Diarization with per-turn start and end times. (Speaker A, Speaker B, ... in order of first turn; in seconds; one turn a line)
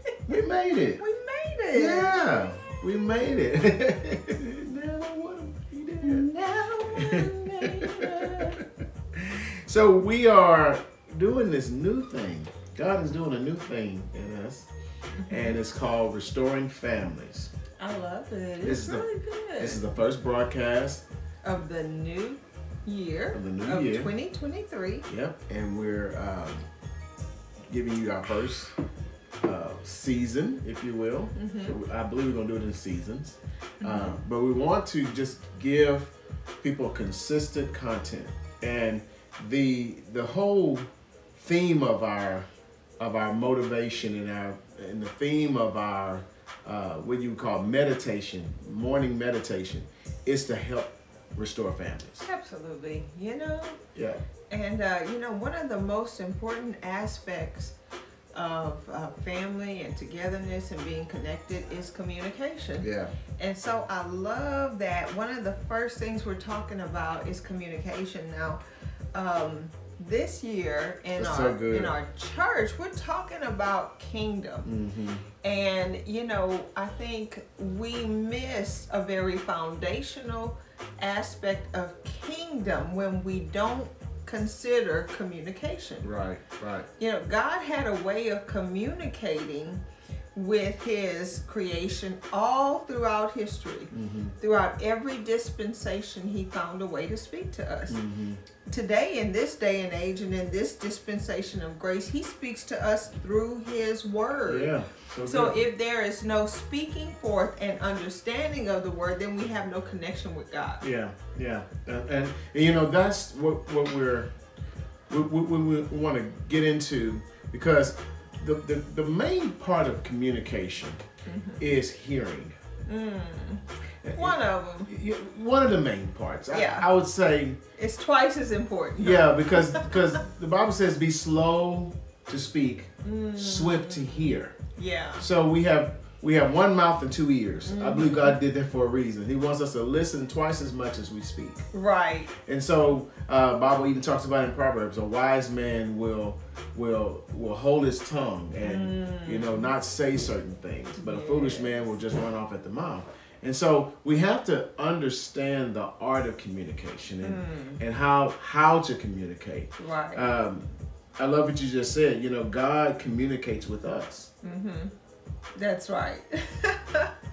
Speaker A: 0.3-1.0
Speaker B: 1.0-2.8
Speaker A: 1.7-6.3
Speaker B: 6.0-8.6
Speaker A: 6.9-14.7
Speaker B: 15.2-15.6
Speaker A: 15.3-17.5
Speaker B: 17.8-19.8
Speaker A: 18.6-19.0
Speaker A: 19.6-21.0
Speaker B: 21.4-25.1
Speaker A: 23.3-24.1
Speaker A: 25.1-26.6
Speaker A: 27.7-28.7
Speaker A: 29.4-42.5
Speaker B: 31.3-31.8
Speaker B: 33.8-34.2
Speaker A: 43.0-52.2
Speaker B: 52.2-53.8
Speaker A: 53.9-54.2
Speaker B: 54.5-57.7
Speaker B: 58.3-68.6
Speaker A: 62.8-63.1
Speaker B: 69.1-74.7
Speaker A: 71.2-71.9
Speaker A: 74.6-75.2
Speaker B: 75.4-86.0
Speaker A: 86.0-86.9
Speaker B: 87.0-89.8
Speaker B: 90.3-98.0
Speaker A: 93.9-94.3
Speaker A: 97.9-98.4
Speaker B: 98.6-104.7
Speaker A: 104.5-105.6
Speaker B: 105.2-110.8
Speaker A: 110.8-114.3
Speaker A: 115.1-121.0
Speaker B: 121.2-121.6
Speaker A: 121.6-122.5
Speaker B: 122.9-123.6
Speaker A: 124.0-127.6
Speaker B: 124.2-124.9
Speaker B: 126.5-126.9
Speaker B: 127.8-130.2
Speaker A: 129.0-134.5
Speaker B: 133.0-135.2
Speaker A: 135.2-141.7
Speaker B: 137.7-138.4
Speaker B: 141.7-142.3
Speaker A: 142.4-160.7
Speaker B: 148.6-149.7
Speaker B: 151.0-151.8
Speaker B: 157.2-157.8
Speaker B: 159.8-160.3
Speaker A: 161.2-164.3
Speaker B: 164.4-164.9
Speaker B: 165.6-167.1